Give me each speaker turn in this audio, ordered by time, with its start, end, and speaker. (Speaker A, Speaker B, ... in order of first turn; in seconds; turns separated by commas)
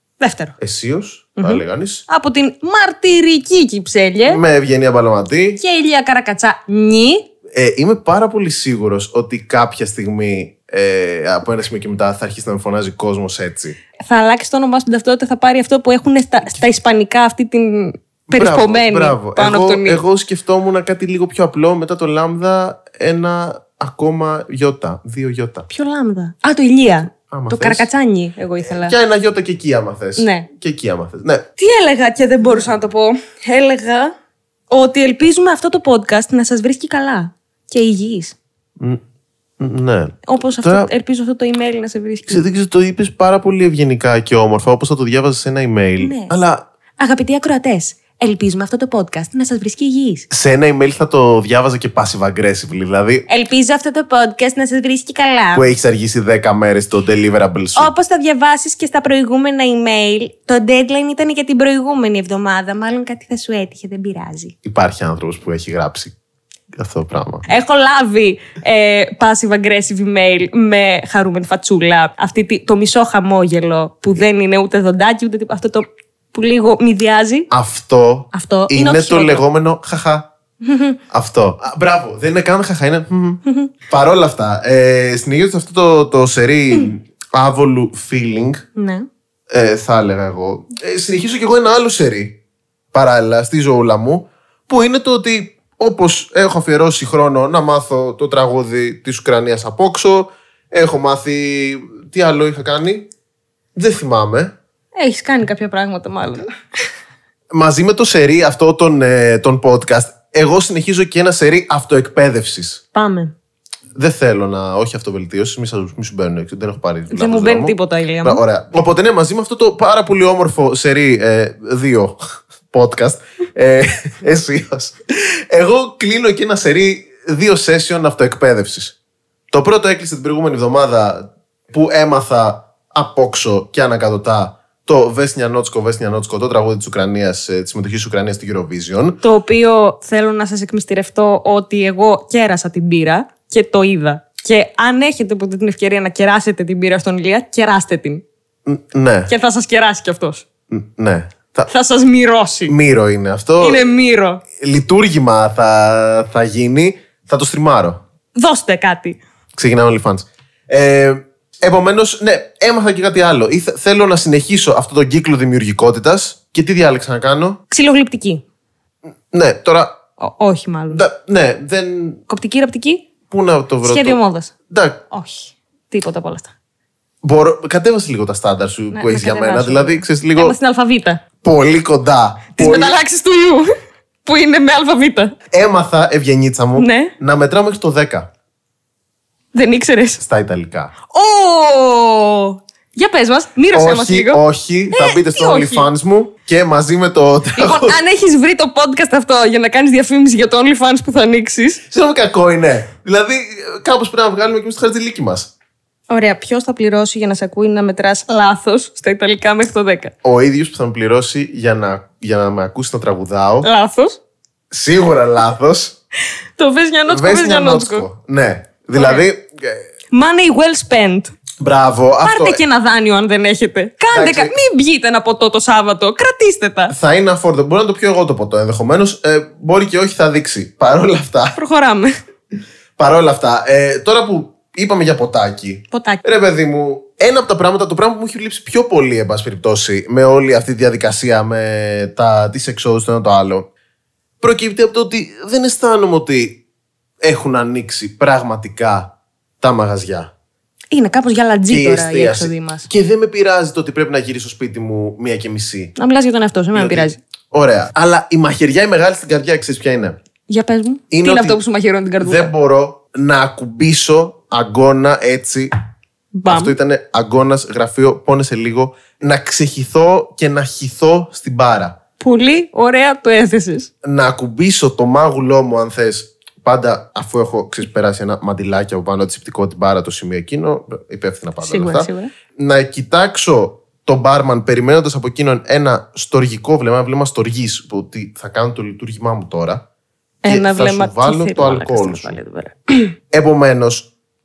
Speaker A: 0.2-0.5, Speaker B: 0.6-2.0, Speaker A: 1.4-4.4, Speaker B: 4.2-5.6, Speaker A: 5.6-7.2, Speaker B: 7.5-13.8, Speaker A: 14.0-20.0, Speaker B: 18.3-25.7, Speaker A: 25.7-28.9, Speaker B: 27.3-27.9, Speaker B: 28.6-31.4, Speaker A: 30.2-30.5, Speaker A: 31.6-34.1, Speaker A: 34.7-38.4, Speaker B: 39.6-40.9, Speaker A: 40.2-42.4, Speaker B: 42.3-46.7, Speaker A: 46.0-46.4, Speaker A: 47.0-50.2, Speaker B: 50.3-53.2, Speaker A: 53.3-55.7, Speaker B: 55.5-57.9, Speaker A: 57.8-64.5, Speaker B: 64.6-66.1, Speaker B: 66.7-67.5, Speaker A: 67.5-77.5, Speaker B: 77.5-80.3, Speaker A: 78.3-79.4, Speaker A: 80.6-81.0, Speaker B: 81.1-88.6, Speaker A: 83.4-83.7, Speaker A: 88.8-89.1, Speaker B: 89.5-92.4, Speaker B: 92.9-103.1, Speaker B: 103.8-104.5, Speaker A: 105.0-106.5, Speaker B: 107.5-112.8, Speaker A: 112.9-113.3, Speaker B: 114.0-122.2, Speaker A: 117.1-118.4, Speaker B: 122.7-128.9, Speaker B: 129.5-139.2, Speaker A: 139.2-148.2, Speaker B: 148.7-149.3, Speaker A: 149.3-150.4, Speaker B: 150.7-151.7, Speaker A: 151.7-152.7, Speaker B: 152.7-153.8, Speaker A: 153.6-154.4, Speaker B: 154.6-158.0, Speaker A: 158.4-159.2, Speaker B: 159.6-167.6, Speaker A: 167.7-168.4, Speaker B: 169.3-169.9, Speaker A: 170.2-171.0, Speaker B: 170.9-172.2, Speaker A: 172.3-173.1, Speaker B: 173.3-175.0, Speaker A: 173.8-174.5, Speaker A: 175.1-176.5, Speaker B: 177.2-180.6, Speaker A: 178.9-181.2, Speaker B: 181.4-183.0, Speaker A: 182.5-183.7, Speaker A: 184.2-185.3, Speaker B: 185.5-188.3, Speaker A: 186.8-187.1, Speaker A: 189.5-190.2, Speaker B: 190.2-190.9, Speaker A: 191.1-195.9, Speaker B: 193.7-198.0, Speaker A: 197.6-201.8, Speaker B: 201.9-205.5, Speaker A: 206.1-210.1, Speaker B: 210.2-213.7, Speaker A: 213.6-214.2, Speaker B: 214.7-215.9, Speaker A: 216.6-218.1, Speaker B: 217.1-219.8, Speaker A: 218.9-219.3, Speaker A: 220.1-221.3, Speaker B: 221.6-222.6, Speaker A: 222.2-226.9, Speaker B: 224.1-224.5, Speaker B: 226.9-231.6, Speaker A: 231.5-232.1, Speaker B: 233.0-243.7, Speaker A: 235.9-236.2, Speaker B: 244.4-246.6, Speaker B: 247.2-250.3, Speaker A: 250.9-252.9, Speaker B: 251.7-255.9, Speaker A: 255.9-257.2, Speaker B: 256.7-260.2, Speaker A: 260.5-262.5, Speaker B: 261.1-261.6, Speaker B: 262.2-265.7, Speaker A: 266.4-266.8, Speaker B: 266.5-272.0, Speaker A: 272.2-273.9, Speaker B: 274.0-289.8, Speaker A: 281.6-282.3, Speaker A: 290.4-293.1, Speaker B: 290.4-292.4, Speaker B: 293.3-294.1